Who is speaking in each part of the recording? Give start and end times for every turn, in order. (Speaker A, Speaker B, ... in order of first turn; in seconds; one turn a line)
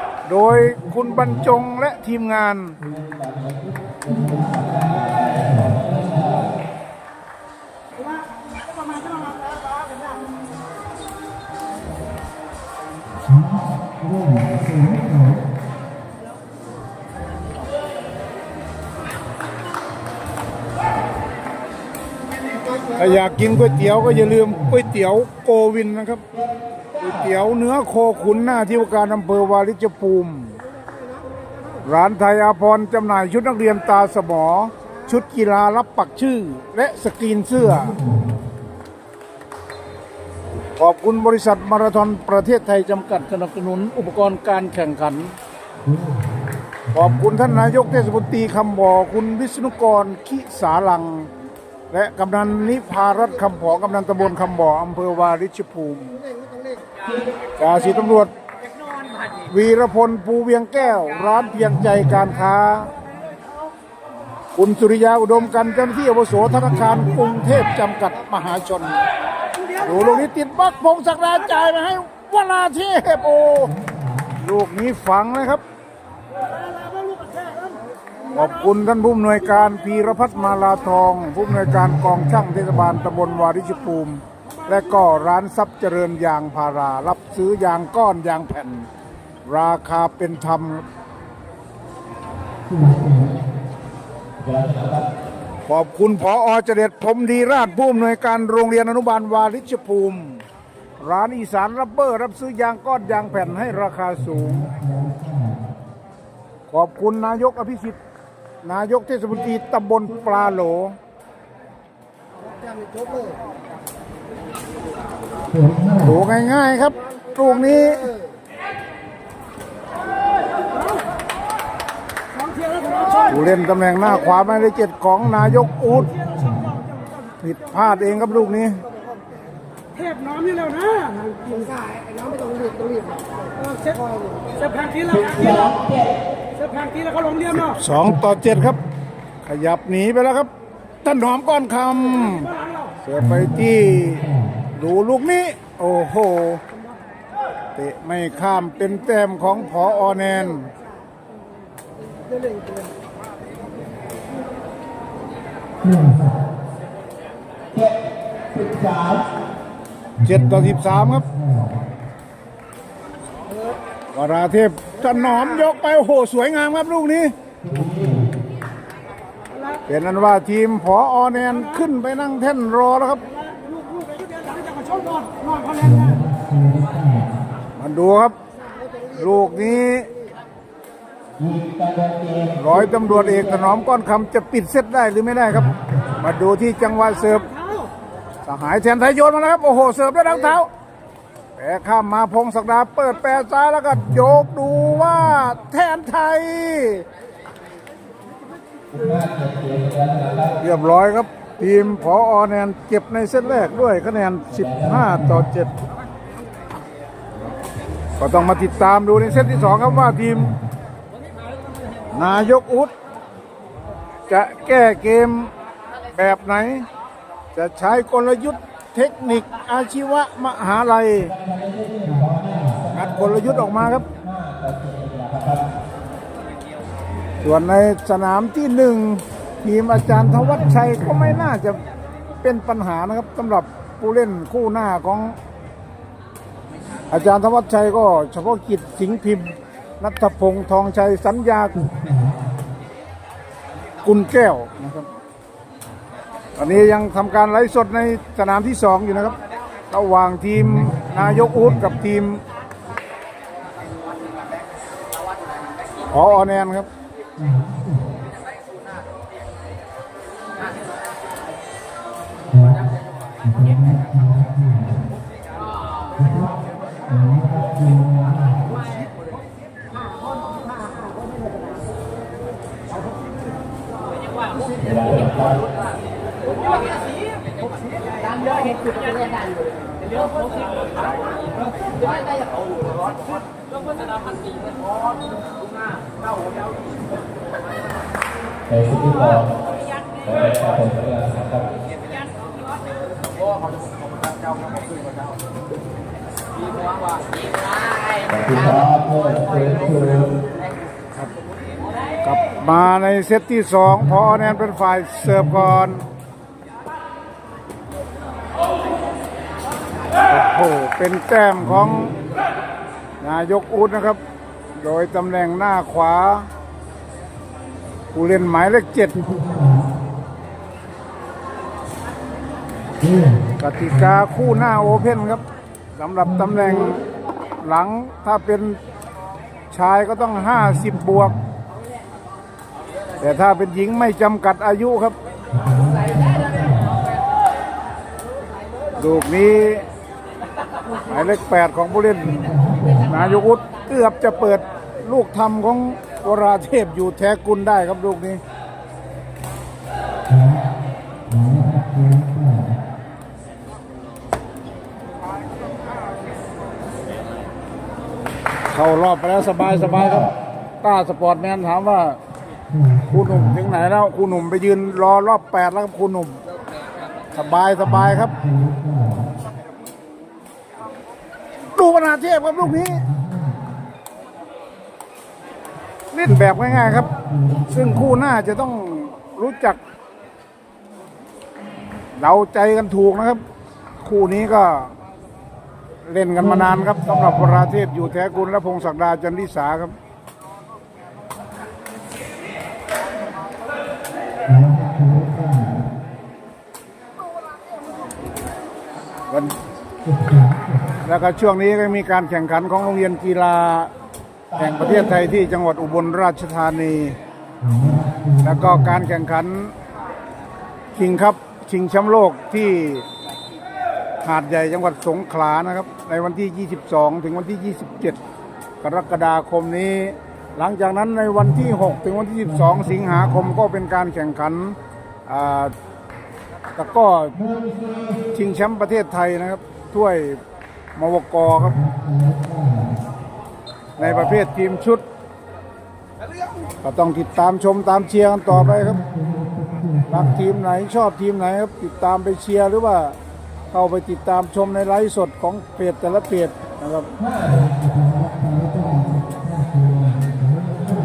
Speaker A: 0.3-2.8
Speaker B: 2.8-6.5
Speaker C: 8.0-10.2
Speaker A: 22.9-26.2
Speaker A: 27.0-30.5
Speaker A: 31.8-38.0
Speaker A: 40.8-45.3
Speaker A: 46.9-51.3
Speaker A: 51.9-56.2
Speaker A: 57.6-58.3
Speaker A: 59.5-62.9
Speaker C: 63.1-63.7
Speaker A: 64.5-69.0
Speaker C: 69.5-70.2
Speaker A: 69.8-73.8
Speaker A: 74.4-75.6
Speaker C: 76.3-77.8
Speaker A: 78.3-88.9
Speaker A: 89.5-90.8
Speaker B: 94.4-95.1
Speaker A: 95.7-100.4
Speaker A: 101.0-104.7
Speaker A: 106.7-108.0
Speaker A: 108.6-111.0
Speaker A: 116.0-118.1
Speaker C: 122.3-123.3
Speaker A: 123.3-126.1
Speaker C: 126.1-127.3
Speaker A: 127.4-128.8
Speaker C: 129.9-131.8
Speaker C: 133.6-135.7
Speaker B: 135.1-136.1
Speaker C: 136.6-137.7
Speaker A: 137.5-138.8
Speaker A: 139.4-140.5
Speaker A: 141.0-142.5
Speaker A: 143.0-146.6
Speaker A: 147.8-150.7
Speaker B: 158.5-159.2
Speaker A: 160.2-161.2
Speaker A: 164.1-167.3
Speaker B: 167.6-168.3
Speaker A: 169.9-173.2
Speaker C: 173.3-176.2
Speaker B: 175.9-177.2
Speaker A: 177.8-178.3
Speaker A: 179.1-180.1
Speaker B: 181.4-183.7
Speaker A: 182.6-187.4
Speaker C: 187.5-187.9
Speaker A: 188.4-190.7
Speaker A: 191.6-197.1
Speaker B: 198.9-200.6
Speaker A: 200.6-205.7
Speaker B: 204.5-205.2
Speaker A: 208.2-210.5
Speaker A: 212.1-212.9
Speaker A: 214.3-215.5
Speaker A: 216.1-216.8
Speaker A: 217.5-221.3
Speaker B: 221.2-225.7
Speaker A: 222.9-224.0
Speaker A: 227.4-231.8
Speaker A: 232.4-235.3
Speaker A: 237.1-241.8
Speaker A: 244.0-245.1
Speaker A: 246.6-249.3
Speaker A: 249.9-252.4
Speaker A: 256.1-256.9
Speaker B: 274.8-275.7
Speaker B: 288.7-289.5
Speaker B: 290.2-291.7
Speaker B: 298.3-300.4
Speaker A: 302.2-306.0
Speaker A: 310.3-312.1
Speaker A: 313.2-314.2
Speaker A: 314.8-316.5
Speaker A: 318.1-319.2
Speaker A: 323.6-325.4
Speaker A: 326.0-327.0
Speaker A: 327.6-328.8
Speaker A: 329.7-331.4
Speaker A: 333.2-335.1
Speaker B: 335.9-336.7
Speaker A: 339.0-339.8
Speaker A: 341.1-348.4
Speaker A: 358.7-360.3
Speaker A: 360.8-362.2
Speaker A: 363.1-366.4
Speaker A: 367.3-368.4
Speaker A: 371.8-373.0
Speaker A: 376.1-379.8
Speaker A: 382.2-383.4
Speaker A: 384.0-384.9
Speaker A: 386.1-389.9
Speaker A: 401.0-403.9
Speaker A: 404.6-407.2
Speaker A: 408.4-409.7
Speaker A: 410.9-413.0
Speaker A: 414.2-418.2
Speaker A: 418.8-424.8
Speaker A: 425.3-425.7
Speaker A: 426.7-427.4
Speaker A: 428.3-430.4
Speaker A: 430.9-431.8
Speaker A: 434.0-435.0
Speaker A: 436.8-439.0
Speaker A: 440.1-443.2
Speaker A: 443.7-447.1
Speaker B: 447.4-447.7
Speaker B: 448.6-449.3
Speaker B: 449.9-450.3